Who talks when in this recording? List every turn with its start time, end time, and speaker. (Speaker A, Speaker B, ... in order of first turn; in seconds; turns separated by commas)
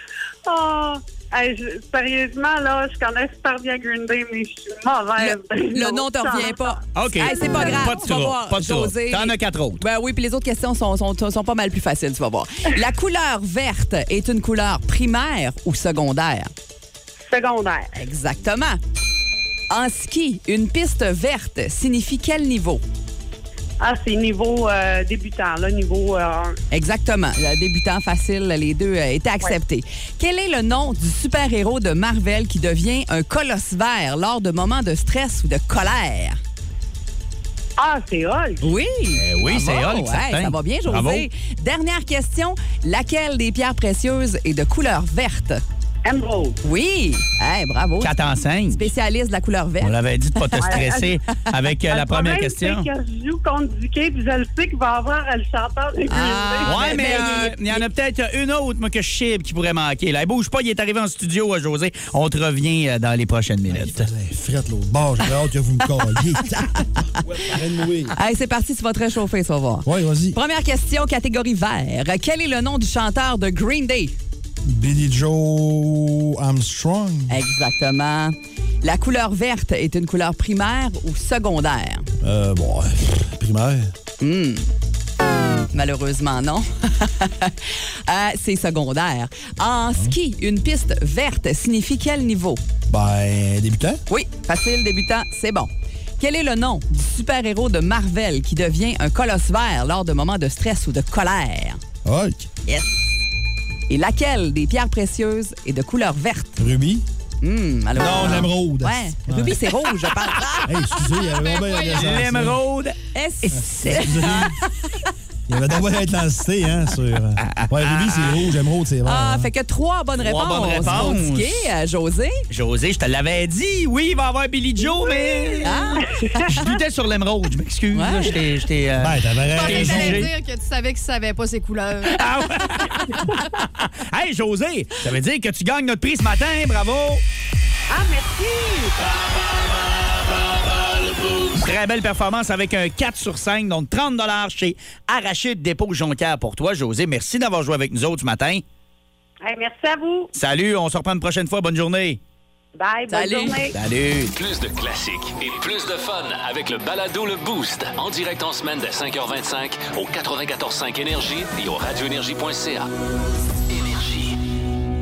Speaker A: 0.5-6.6, Speaker B: 5.2-16.5, Speaker C: 6.9-9.8, Speaker A: 7.2-7.9, Speaker A: 17.3-17.9, Speaker B: 17.9-18.8, Speaker B: 19.7-22.8, Speaker A: 23.8-26.6, Speaker B: 26.7-36.4, Speaker A: 37.8-38.6, Speaker B: 38.6-45.6, Speaker C: 39.1-41.2, Speaker A: 46.0-46.5, Speaker B: 46.6-48.1, Speaker C: 48.0-48.9, Speaker B: 48.7-50.9, Speaker C: 49.8-52.9, Speaker A: 50.6-51.1, Speaker A: 51.9-57.5, Speaker B: 56.1-57.8, Speaker C: 56.6-64.1, Speaker D: 63.7-68.2, Speaker B: 68.1-74.2, Speaker D: 69.8-70.4, Speaker D: 74.6-77.4, Speaker B: 77.3-82.1, Speaker D: 82.2-83.9, Speaker B: 84.2-84.7, Speaker B: 85.7-92.6, Speaker D: 92.9-94.0, Speaker B: 94.1-101.8, Speaker D: 102.0-102.5, Speaker B: 102.7-103.0, Speaker B: 103.9-106.6, Speaker D: 106.6-107.0, Speaker B: 107.4-110.7, Speaker D: 108.0-109.5, Speaker C: 108.0-108.5, Speaker D: 110.7-112.6, Speaker E: 111.3-112.1, Speaker C: 111.8-114.5, Speaker B: 113.1-115.0, Speaker D: 113.8-114.5, Speaker D: 115.5-119.5, Speaker C: 117.4-118.4, Speaker B: 119.0-122.4, Speaker C: 120.2-121.6, Speaker D: 120.8-121.1, Speaker C: 122.5-130.3, Speaker B: 125.6-126.1, Speaker B: 127.9-128.4, Speaker D: 129.0-130.2, Speaker E: 129.5-132.2, Speaker C: 132.0-137.2, Speaker A: 137.9-139.1, Speaker C: 141.3-148.6, Speaker A: 149.4-150.3, Speaker C: 150.3-152.2, Speaker A: 152.8-153.7, Speaker B: 153.1-153.7, Speaker C: 153.7-154.3, Speaker F: 154.3-162.9, Speaker F: 163.7-164.3